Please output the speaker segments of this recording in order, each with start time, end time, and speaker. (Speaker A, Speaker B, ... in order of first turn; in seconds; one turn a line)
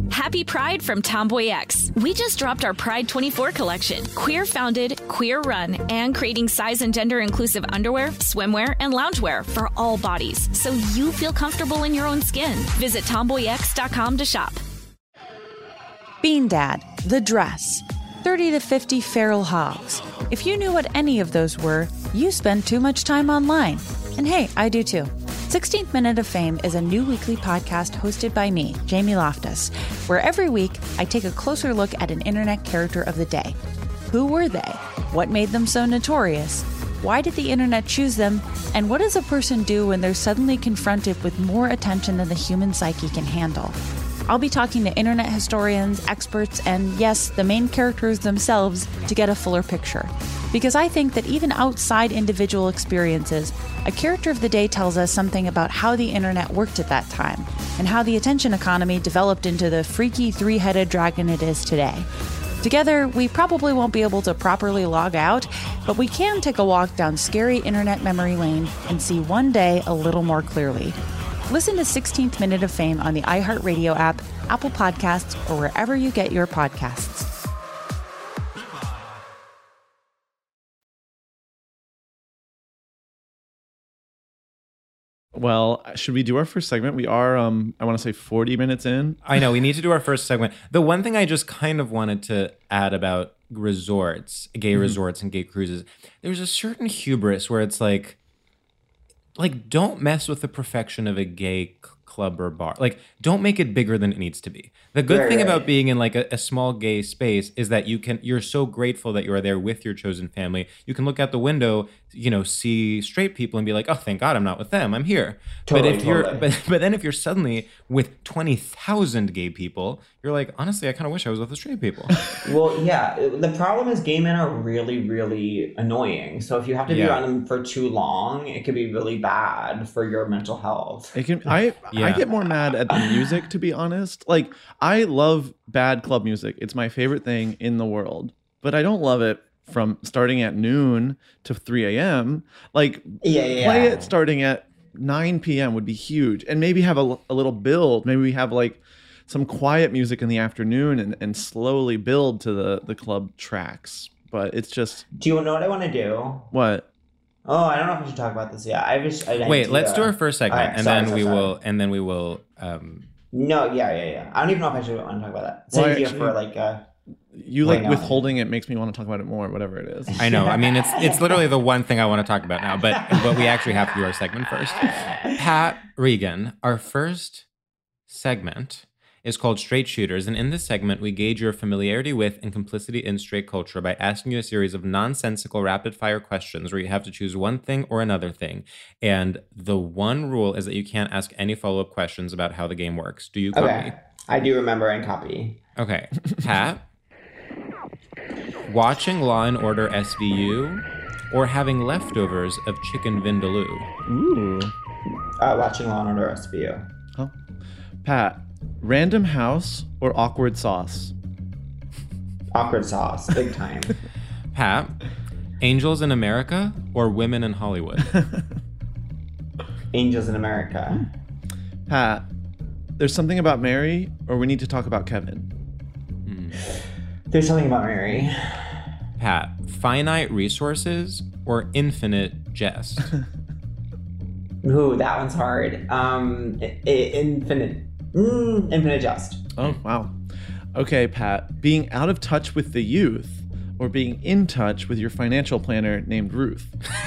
Speaker A: 0.1-14.6
Speaker B: 16.2-33.6
Speaker B: 34.1-62.1
Speaker B: 62.6-71.0
Speaker B: 71.5-77.3
Speaker C: 85.3-89.2
Speaker D: 89.2-98.2
Speaker D: 99.4-122.2
Speaker E: 105.1-105.7
Speaker E: 115.7-116.5
Speaker E: 122.4-131.2
Speaker D: 126.9-127.2
Speaker C: 131.2-155.1
Speaker D: 131.9-132.2
Speaker E: 132.9-133.3
Speaker E: 143.2-144.1
Speaker E: 155.1-156.5
Speaker C: 156.5-156.8
Speaker E: 157.4-161.5
Speaker D: 159.4-163.1
Speaker E: 163.3-166.9
Speaker C: 165.7-166.3
Speaker C: 167.3-170.2
Speaker E: 167.6-168.3
Speaker E: 170.1-171.4
Speaker D: 170.2-177.4
Speaker E: 172.9-173.6
Speaker E: 174.9-175.3
Speaker D: 178.1-193.9
Speaker E: 193.5-195.6
Speaker D: 195.8-196.8
Speaker D: 198.7-203.9
Speaker C: 204.1-204.7
Speaker E: 205.4-206.8
Speaker C: 208.0-211.1
Speaker E: 212.5-213.9
Speaker D: 214.5-214.9
Speaker D: 215.6-218.1
Speaker E: 219.9-221.1
Speaker C: 221.9-222.2
Speaker C: 223.0-225.5
Speaker D: 226.2-226.6
Speaker E: 227.3-228.9
Speaker D: 229.2-233.0
Speaker E: 234.6-239.4
Speaker C: 239.6-240.1
Speaker C: 240.7-246.7